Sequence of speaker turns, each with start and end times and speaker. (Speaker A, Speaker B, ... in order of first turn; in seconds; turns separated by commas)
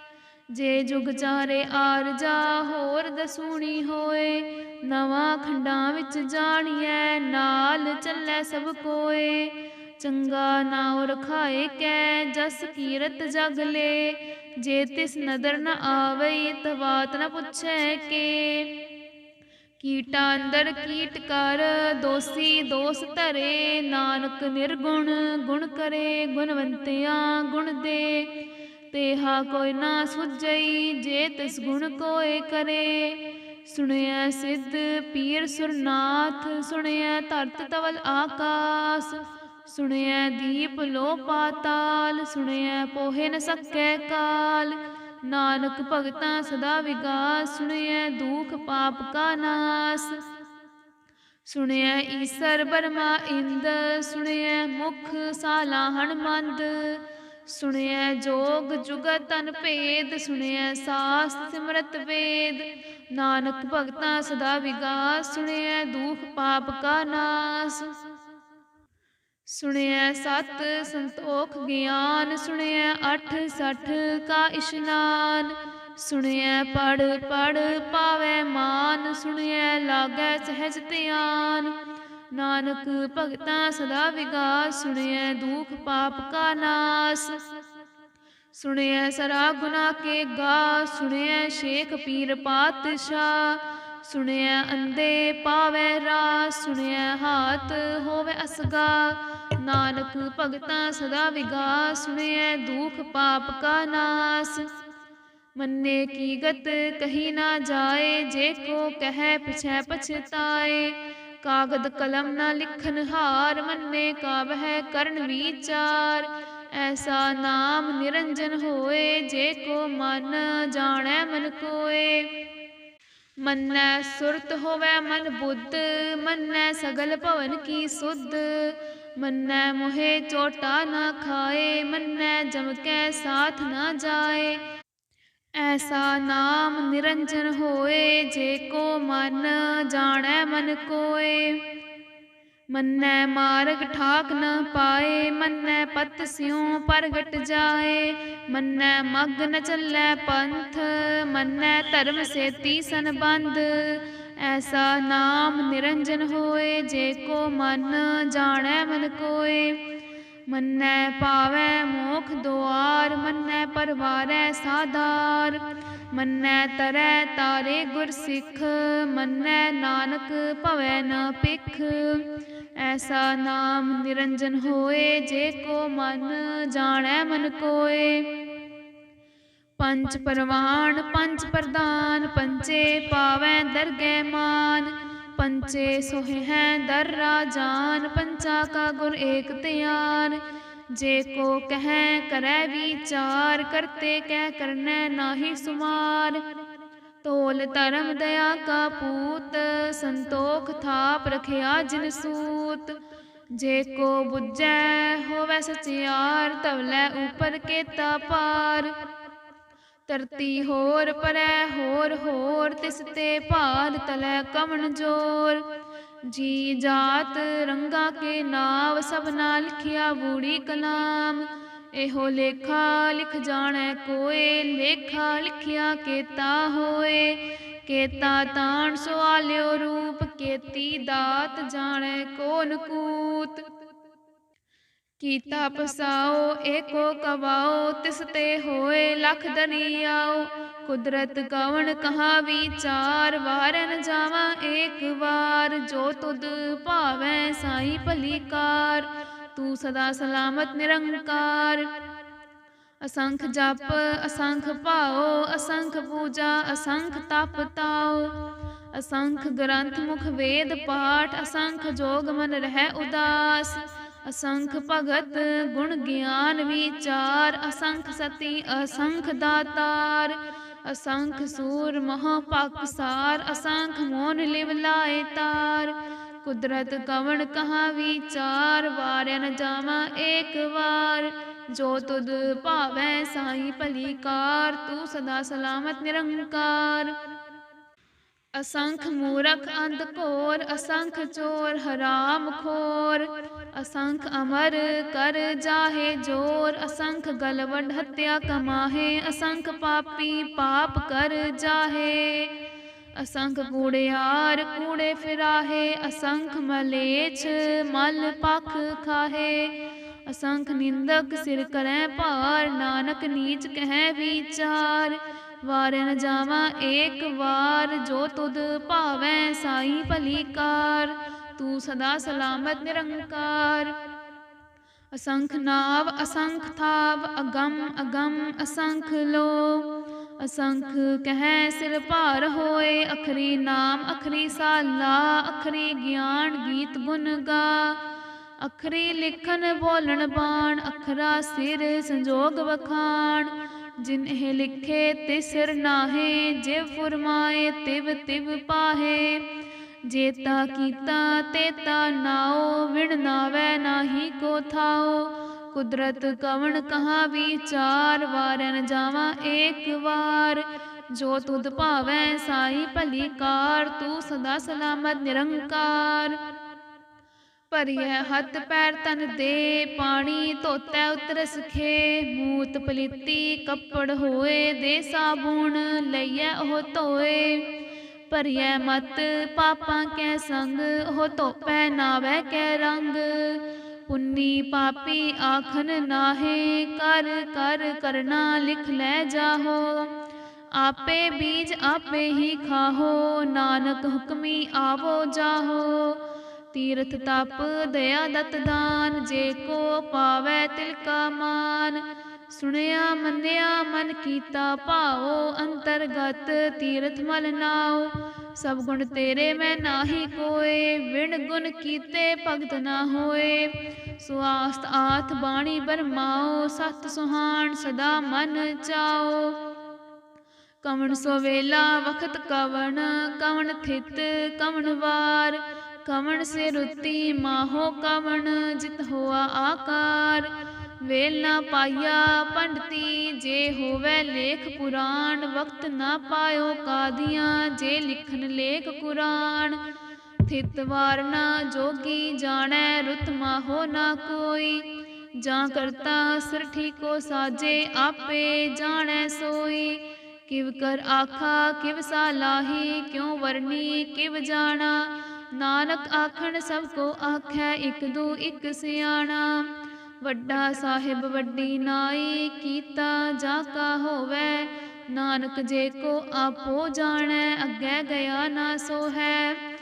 Speaker A: 0.5-18.8, Speaker A: 19.8-28.4, Speaker A: 28.9-50.2, Speaker A: 51.5-68.0, Speaker A: 69.5-81.8, Speaker A: 82.3-87.4, Speaker A: 88.5-104.7, Speaker A: 105.5-122.3, Speaker A: 123.4-134.6, Speaker A: 135.6-141.7, Speaker A: 142.7-159.8, Speaker A: 160.5-178.4, Speaker A: 179.8-196.4, Speaker A: 197.2-203.0, Speaker A: 203.5-208.9, Speaker A: 210.1-215.7, Speaker A: 216.2-233.6, Speaker A: 235.2-251.9, Speaker A: 253.0-287.1, Speaker A: 288.6-302.6, Speaker A: 303.1-323.9, Speaker A: 325.1-338.0, Speaker A: 338.6-349.4, Speaker A: 350.0-366.4, Speaker A: 367.7-377.7, Speaker A: 378.3-390.1, Speaker A: 390.8-419.6, Speaker A: 420.8-430.5, Speaker A: 431.0-439.8, Speaker A: 440.4-459.7, Speaker A: 460.2-469.6